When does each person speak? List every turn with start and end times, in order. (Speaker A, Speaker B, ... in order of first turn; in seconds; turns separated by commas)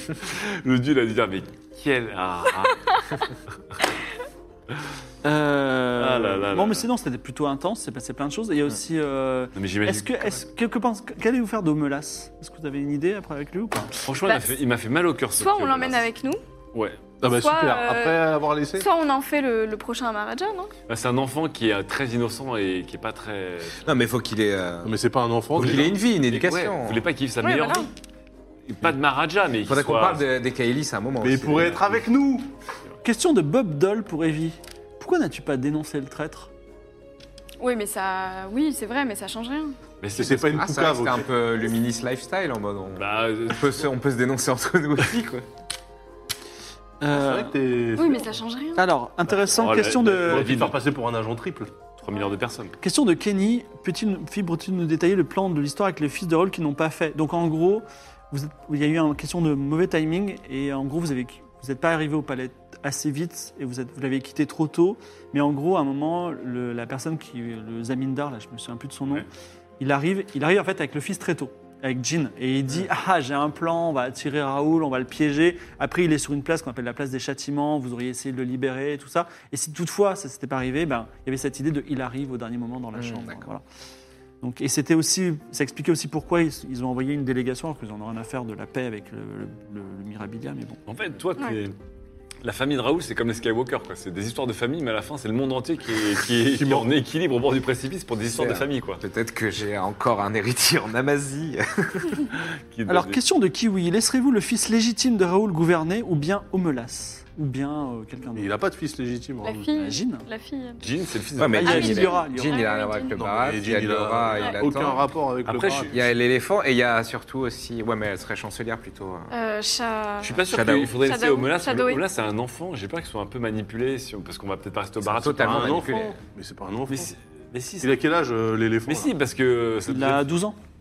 Speaker A: 0.2-2.8, Speaker B: 2.9-3.2, Speaker C: 5.2-14.0, Speaker A: 6.0-6.8, Speaker A: 9.5-10.4, Speaker A: 14.1-16.1, Speaker B: 14.2-14.6, Speaker B: 15.4-16.4, Speaker A: 16.7-17.0, Speaker D: 17.2-18.9, Speaker B: 17.3-20.7, Speaker A: 20.9-23.9, Speaker E: 23.8-24.9, Speaker D: 24.8-26.0, Speaker E: 25.5-27.0, Speaker A: 25.6-27.9, Speaker B: 27.4-27.9, Speaker A: 28.7-30.3, Speaker E: 29.6-31.9, Speaker D: 31.2-32.5, Speaker C: 33.0-36.5, Speaker B: 37.6-39.8, Speaker A: 40.0-40.7, Speaker D: 40.1-41.3, Speaker E: 40.5-45.4, Speaker A: 43.0-43.9, Speaker C: 47.0-47.5, Speaker D: 47.1-48.4, Speaker B: 48.0-48.8, Speaker C: 48.8-50.5, Speaker A: 49.3-50.8, Speaker D: 50.1-51.7, Speaker A: 52.0-52.8, Speaker C: 52.8-69.2, Speaker C: 69.8-83.6, Speaker E: 83.0-83.5, Speaker C: 84.4-90.8, Speaker A: 90.9-91.8, Speaker A: 92.4-99.0, Speaker D: 96.5-96.9, Speaker E: 98.3-102.3, Speaker A: 102.7-103.2, Speaker C: 102.9-108.5, Speaker D: 108.3-109.7, Speaker B: 109.4-110.8, Speaker C: 109.7-110.2, Speaker A: 110.8-112.0, Speaker E: 111.4-115.1, Speaker C: 111.5-112.7, Speaker B: 111.6-113.2, Speaker D: 113.2-116.0, Speaker A: 115.5-116.0, Speaker E: 115.9-119.3, Speaker B: 119.3-122.0, Speaker A: 120.2-125.9, Speaker E: 120.5-121.0, Speaker E: 125.0-126.2, Speaker D: 125.4-127.1, Speaker A: 126.9-128.0, Speaker D: 127.8-129.1, Speaker A: 128.8-130.2, Speaker C: 129.9-130.6